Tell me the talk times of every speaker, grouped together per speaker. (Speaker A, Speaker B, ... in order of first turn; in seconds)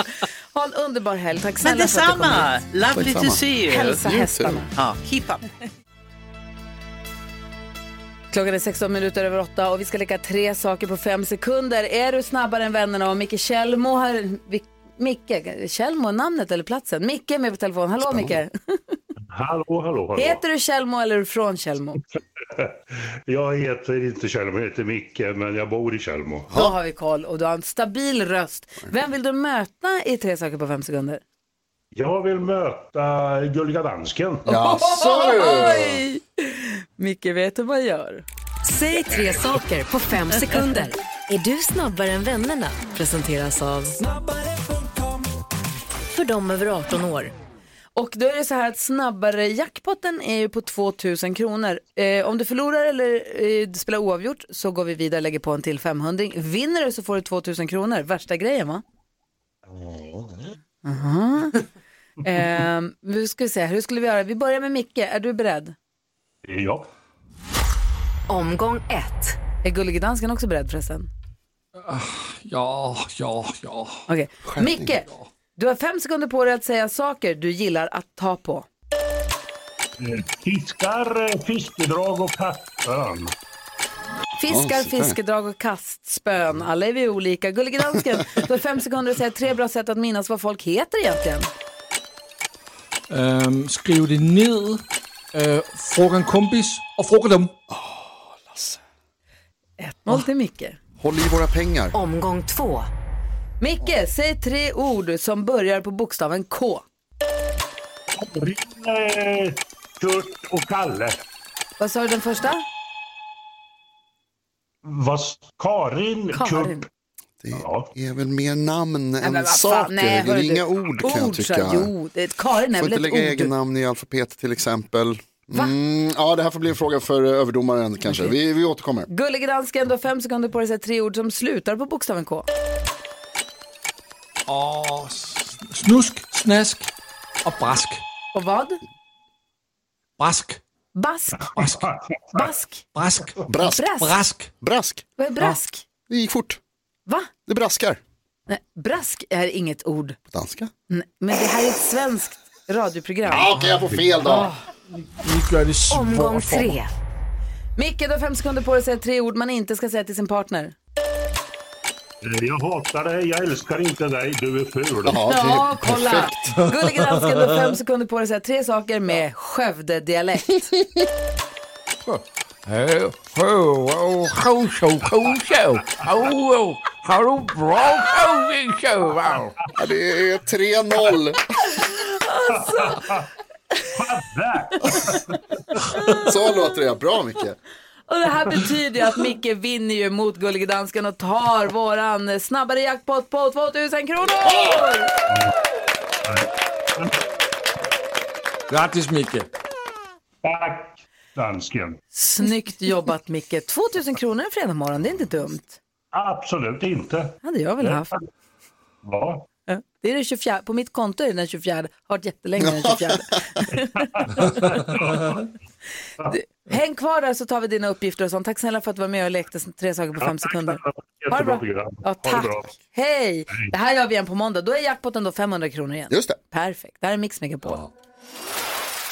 Speaker A: 0.5-2.5, 3.7-4.7, 8.3-19.0, 20.2-22.0, 26.5-31.2, 34.5-38.2, 48.0-58.8, 60.8-61.6, 62.2-65.8, 69.6-71.1, 74.1-78.7, 84.4-91.5, 99.8-100.8, 103.6-106.8, 111.8-112.7, 116.3-116.8, 119.2-123.5, 128.1-128.3, 129.1-132.5, 138.3-138.8, 140.9-142.8, 143.7-144.2, 145.2-145.8, 148.5-150.2, 150.9-154.6, 157.8-160.8, 165.3-170.7, 181.8-183.2, 188.1-195.1, 202.1-205.8, 207.4-208.1, 209.7-214.1, 216.3-227.9
Speaker B: 1.6-4.0, 4.8-5.5
Speaker C: 2.9-4.6, 18.0-18.4, 34.5-36.0, 74.5-74.9, 84.5-85.2, 97.7-98.8, 101.0-102.0, 117.4-121.9, 122.8-129.1, 143.4-143.9, 144.6-145.1, 146.1-146.6, 147.5-148.0, 150.3-150.7, 153.2-154.5, 165.1-166.5, 170.8-171.1, 179.8-181.4, 186.2-187.6, 212.6-213.1, 226.1-226.4
Speaker D: 19.3-20.4, 23.3-26.5, 31.9-34.6, 66.5-66.9, 80.0-83.3, 108.2-111.2, 114.8-116.9, 117.5-117.9, 141.6-142.5, 162.2-165.2, 179.3-179.5, 182.5-183.3, 183.9-185.3, 196.3-197.1, 200.4-202.0, 206.1-208.2, 209.0-209.5, 213.7-215.5, 220.2-222.8
Speaker E: 38.7-44.0, 46.1-47.3, 68.3-69.4, 101.9-102.9, 155.9-156.9
Speaker F: 71.8-74.1, 75.0-75.3, 93.1-97.5, 134.5-136.9, 137.4-138.0, 140.2-140.6, 142.9-144.5, 155.0-156.8, 166.6-167.5, 172.1-179.5, 198.7-199.5